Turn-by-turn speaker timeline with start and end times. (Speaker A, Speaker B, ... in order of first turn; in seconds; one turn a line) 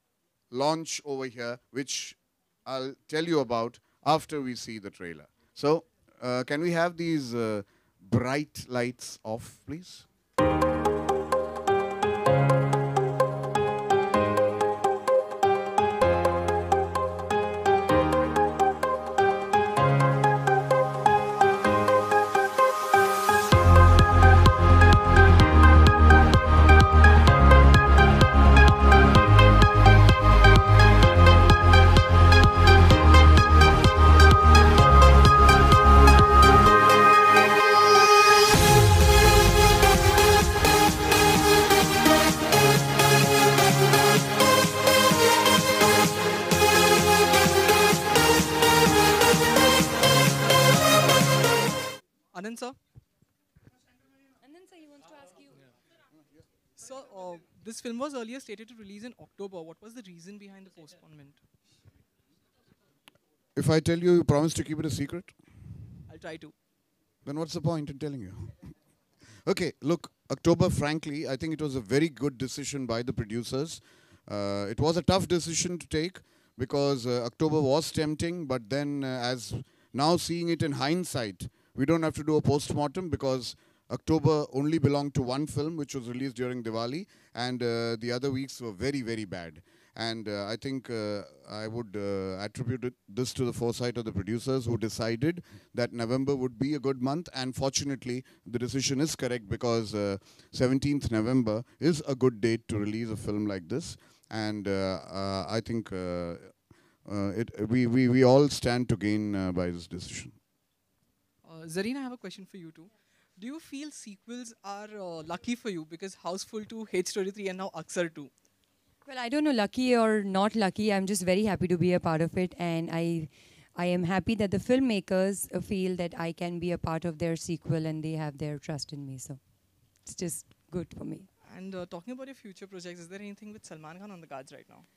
Speaker A: 0.5-10.1
Speaker B: 52.3-52.8
Speaker B: 56.8-61.4
Speaker A: 63.5-65.3
Speaker B: 66.1-66.5
Speaker A: 67.2-68.6
Speaker A: 69.5-106.5
Speaker A: 107.0-110.3
Speaker B: 111.4-118.3
Speaker C: 119.0-129.4
Speaker C: 130.0-131.3
Speaker B: 131.4-134.8